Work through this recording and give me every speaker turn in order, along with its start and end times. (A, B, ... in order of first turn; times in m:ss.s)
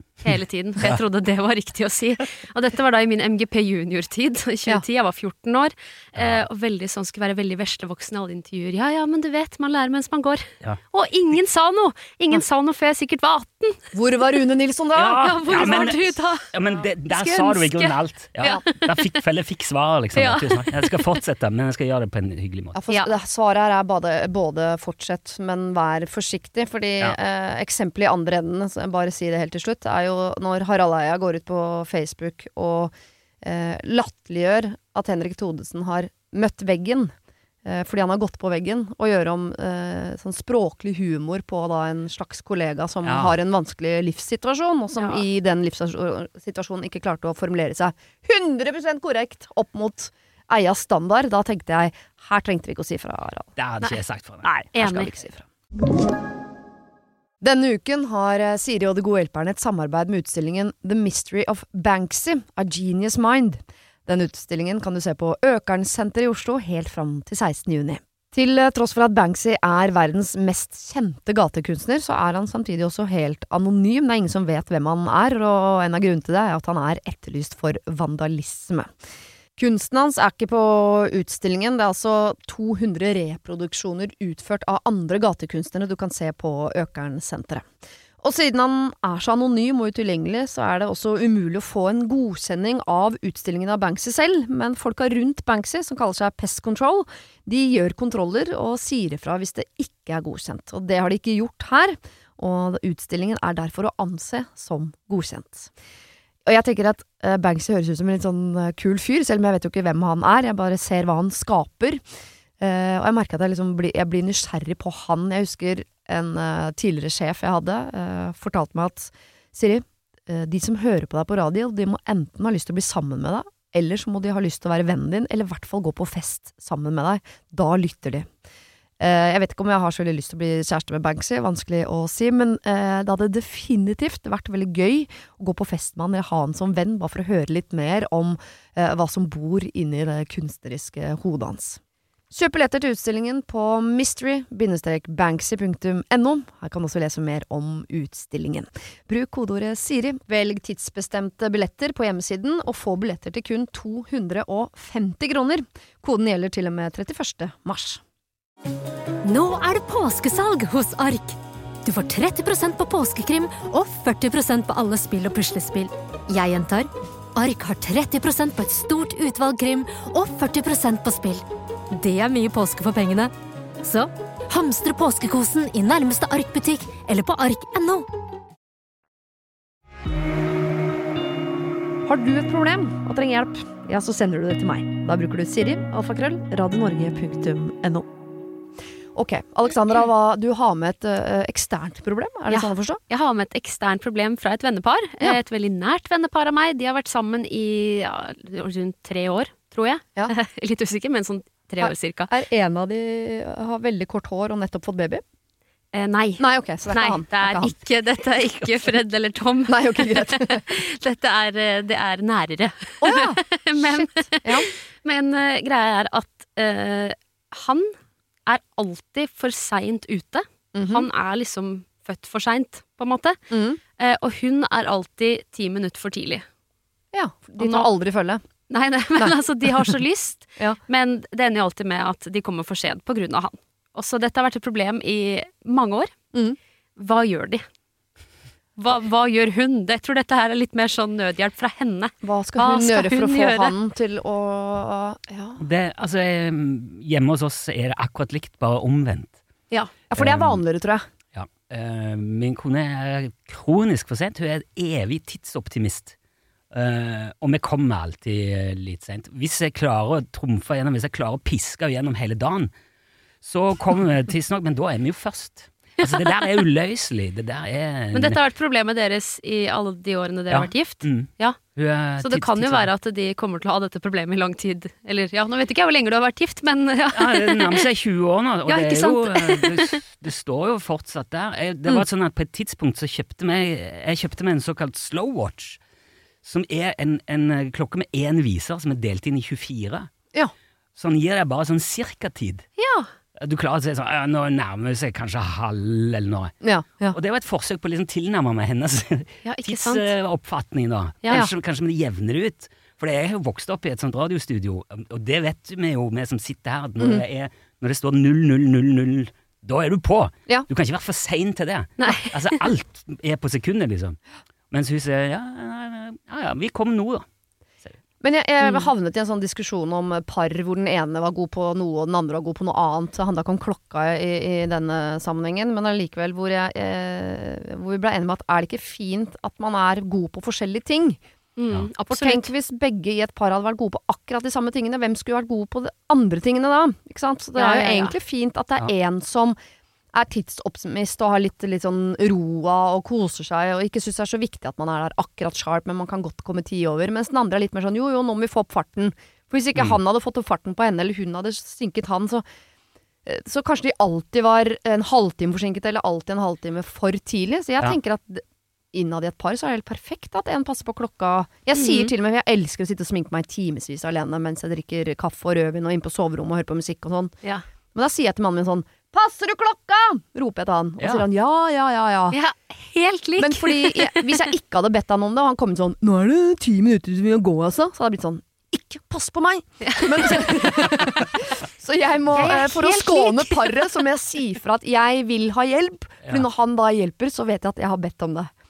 0:00.2-0:13.8 A
0:06.2-0:06.4 B
0:13.9-0:16.2 C
0:15.0-0:22.8 B
0:15.1-0:16.5 A
0:17.1-0:18.9 A
0:20.2-0:21.1 A
0:22.7-0:37.1 C
0:22.9-0:23.1 A
0:37.6-0:53.5 C
0:43.0-0:43.4 B
0:45.0-0:45.2 A
0:53.6-0:54.7 B
0:53.8-0:55.1 A
0:54.7-0:55.5 C
0:57.4-1:18.9 C
1:19.6-1:27.6 C
1:28.2-1:45.7 C
1:46.4-1:52.0 C
1:52.6-2:08.3 C
2:09.0-2:21.8 C
2:22.3-2:38.0 C
2:39.2-2:58.1 D
3:02.1-3:08.1 C
3:09.2-3:13.0 C
3:12.5-3:22.3 A
3:21.8-3:25.2 C
3:25.9-3:37.9 A
3:26.4-3:27.8 C
3:29.7-3:30.6 C
3:33.0-3:34.7 C
3:38.5-3:43.4 A
3:40.7-3:41.1 C
3:43.5-3:43.8 C
3:44.0-3:46.4 A
3:47.1-3:48.4 C
3:47.6-3:47.9 A
3:48.7-3:56.1 A
3:57.0-3:57.6 A
3:58.8-4:03.7 A
4:02.2-4:05.6 C
4:05.6-4:09.4 B
4:10.1-4:11.0 C
4:10.2-4:10.6 B
4:11.3-4:16.2 B
4:16.7-4:22.7 B
4:23.4-4:28.4 B
4:28.1-4:31.6 A
4:30.5-4:32.9 B
4:32.2-4:37.8 A
4:37.1-4:45.8 B
4:38.7-4:40.0 A
4:46.4-4:50.1 B
4:51.0-4:52.7 B
4:52.8-4:53.1 A
4:53.4-4:56.6 B
4:56.6-4:57.2 C
4:57.1-5:14.2 B
4:59.4-5:00.1 A
5:12.0-5:12.4 A
5:14.7-5:17.2 B
5:18.2-5:31.2 C
5:18.6-5:18.9 A
5:31.6-5:32.5 A
5:32.1-5:39.6 C
5:37.6-5:38.1 A
5:40.1-5:52.4 C
5:53.3-6:07.3 C
6:01.8-6:02.1 A
6:07.9-6:12.4 C
6:11.0-6:11.3 B
6:12.3-6:14.4 A
6:13.4-6:28.5 C
6:19.9-6:20.3 A
6:22.3-6:23.8 A